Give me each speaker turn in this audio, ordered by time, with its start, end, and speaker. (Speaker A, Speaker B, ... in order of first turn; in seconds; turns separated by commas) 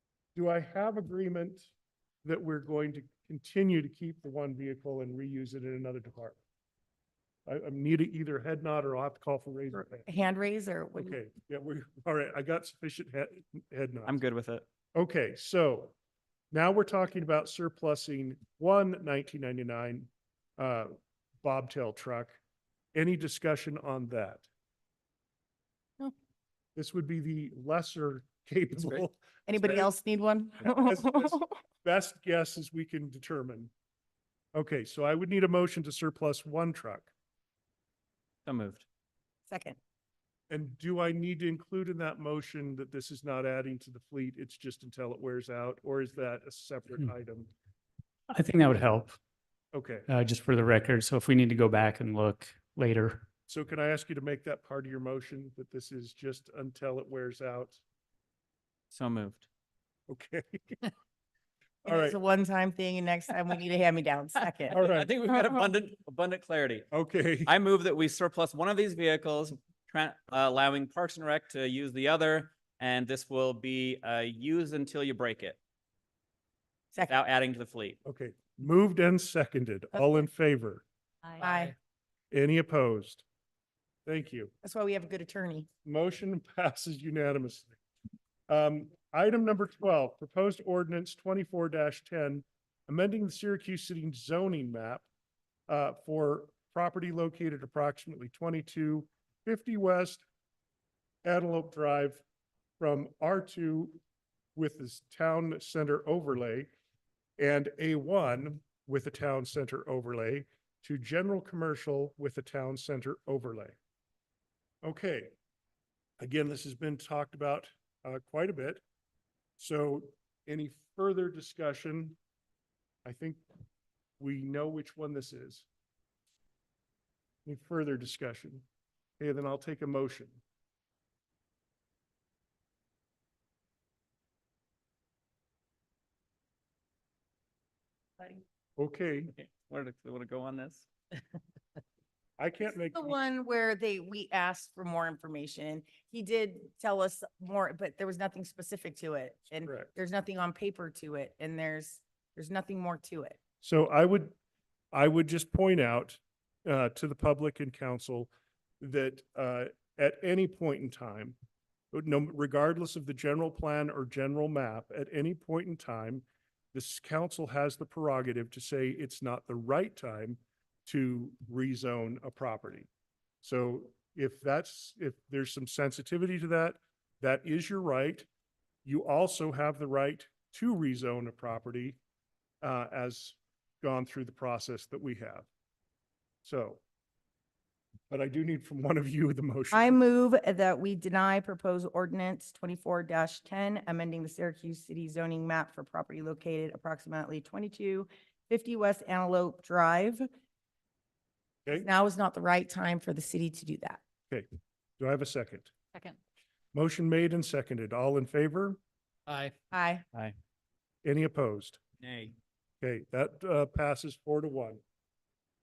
Speaker A: 0.3-1.7, Speaker A: 2.2-6.4, Speaker A: 7.5-10.1, Speaker B: 10.1-11.1, Speaker A: 11.0-14.2, Speaker C: 14.1-14.7, Speaker A: 14.9-15.9, Speaker A: 16.5-20.9, Speaker A: 21.4-22.4, Speaker A: 22.9-24.4, Speaker A: 26.8-29.9, Speaker B: 29.5-31.5, Speaker A: 30.6-33.7, Speaker A: 34.5-37.1, Speaker C: 38.5-38.8, Speaker B: 39.5-39.8, Speaker A: 40.5-47.5, Speaker D: 48.3-49.2, Speaker A: 49.7-50.1, Speaker D: 50.1-53.2, Speaker A: 53.5-57.8, Speaker C: 58.9-59.5, Speaker A: 60.1-60.8, Speaker A: 61.8-62.2, Speaker B: 61.9-64.8, Speaker A: 64.7-65.1, Speaker C: 64.7-66.9, Speaker A: 66.9-67.5, Speaker C: 67.5-75.6, Speaker C: 77.1-78.0, Speaker A: 78.0-80.8, Speaker B: 81.4-81.7, Speaker A: 82.3-83.2, Speaker A: 84.0-84.5, Speaker B: 84.6-85.7, Speaker A: 85.8-87.7, Speaker A: 88.5-95.0, Speaker A: 95.7-100.2, Speaker A: 101.2-102.2, Speaker A: 102.8-104.0, Speaker A: 104.5-106.7, Speaker A: 107.4-113.7, Speaker A: 114.8-115.3, Speaker A: 116.2-118.8, Speaker A: 119.6-122.2, Speaker A: 123.0-123.4, Speaker A: 124.2-125.7, Speaker A: 127.4-128.6, Speaker A: 129.2-130.4, Speaker A: 138.8-139.3, Speaker C: 139.3-141.2, Speaker A: 142.4-143.2, Speaker B: 142.9-153.4, Speaker A: 149.6-149.9, Speaker A: 153.6-154.3, Speaker A: 154.9-158.3, Speaker A: 158.8-161.3, Speaker A: 161.9-172.9, Speaker A: 173.4-178.3, Speaker A: 178.8-182.0, Speaker A: 182.6-185.5, Speaker A: 186.4-186.8, Speaker A: 188.1-190.0, Speaker B: 189.7-200.3, Speaker B: 201.7-204.0, Speaker A: 205.0-205.7, Speaker A: 206.7-208.8, Speaker C: 209.3-209.5, Speaker B: 209.7-210.0, Speaker A: 211.0-211.8, Speaker C: 212.0-212.3, Speaker A: 212.8-214.8